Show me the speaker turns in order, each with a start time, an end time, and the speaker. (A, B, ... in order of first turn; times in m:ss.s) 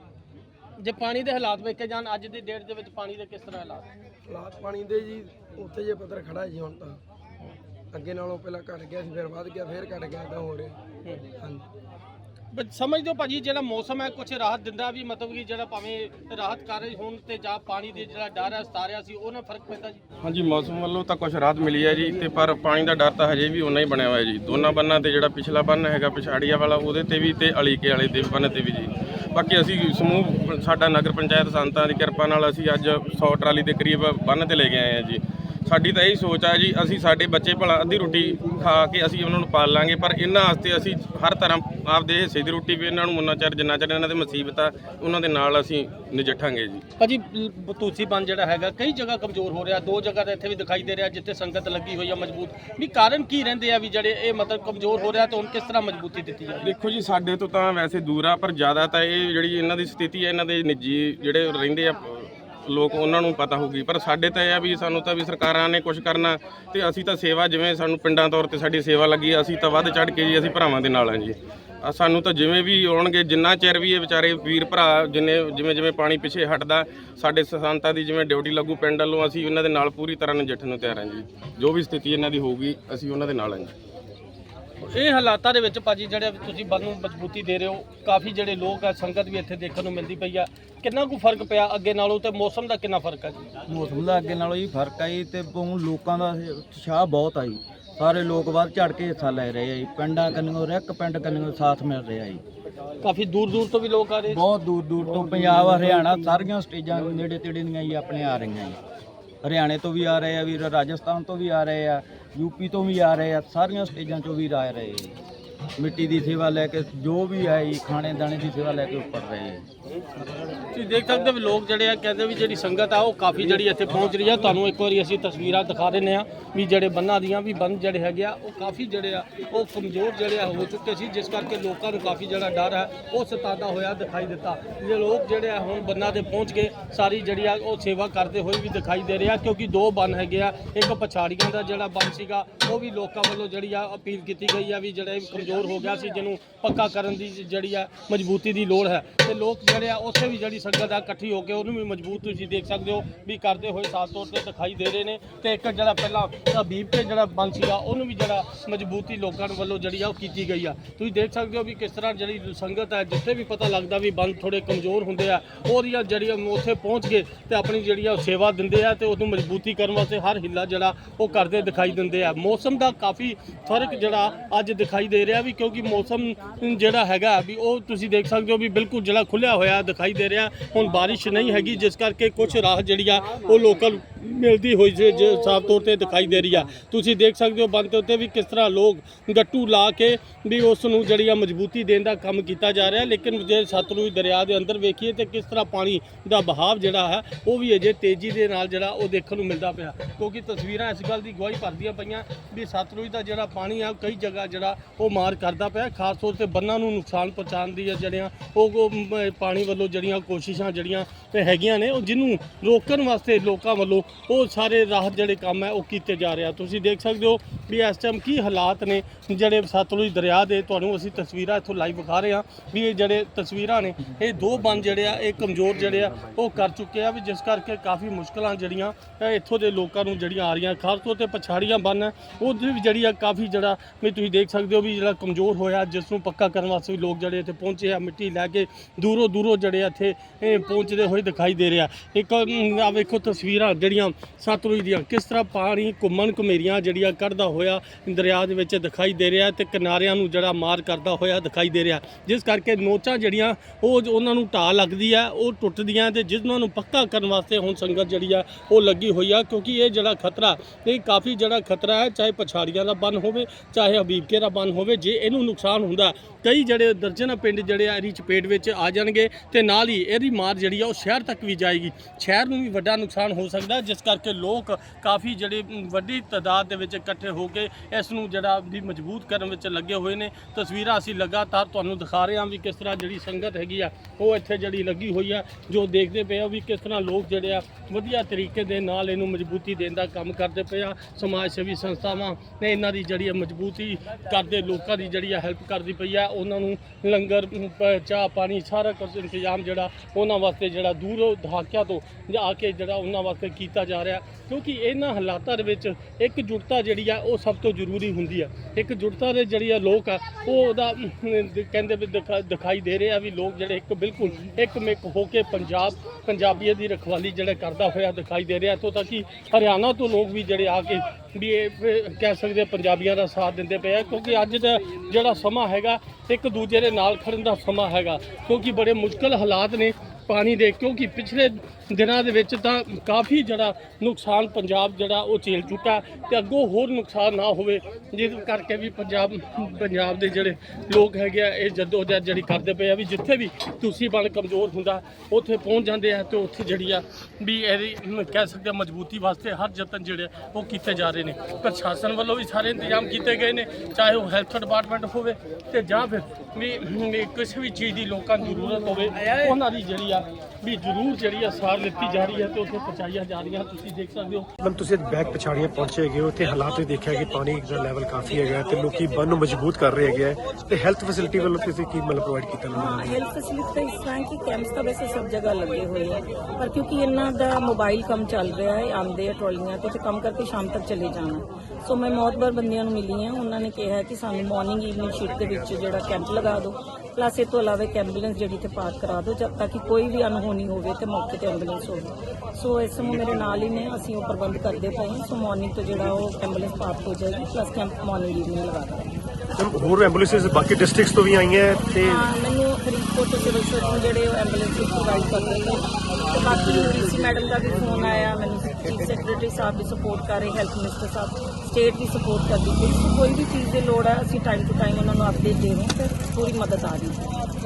0:00.8-0:03.9 A
0:04.2-0:07.0 B
0:07.9-0:10.8 B
0:11.4-0:11.6 B
0:12.5-0:20.0 A
0:20.3-0:46.8 C
0:47.0-0:56.7 A
0:56.7-1:01.9 C
1:02.7-1:11.3 C
1:11.8-1:23.7 C
1:24.8-1:33.5 A
1:33.7-1:42.4 D
1:43.0-1:44.4 A
1:44.3-1:48.8 D
1:45.0-1:46.4 A
1:49.4-1:55.2 D
1:55.8-1:59.7 D
2:00.7-6:04.5 A
6:04.6-6:13.2 E
6:12.7-6:39.1 F
6:39.6-6:42.3 E
6:42.0-6:57.3 F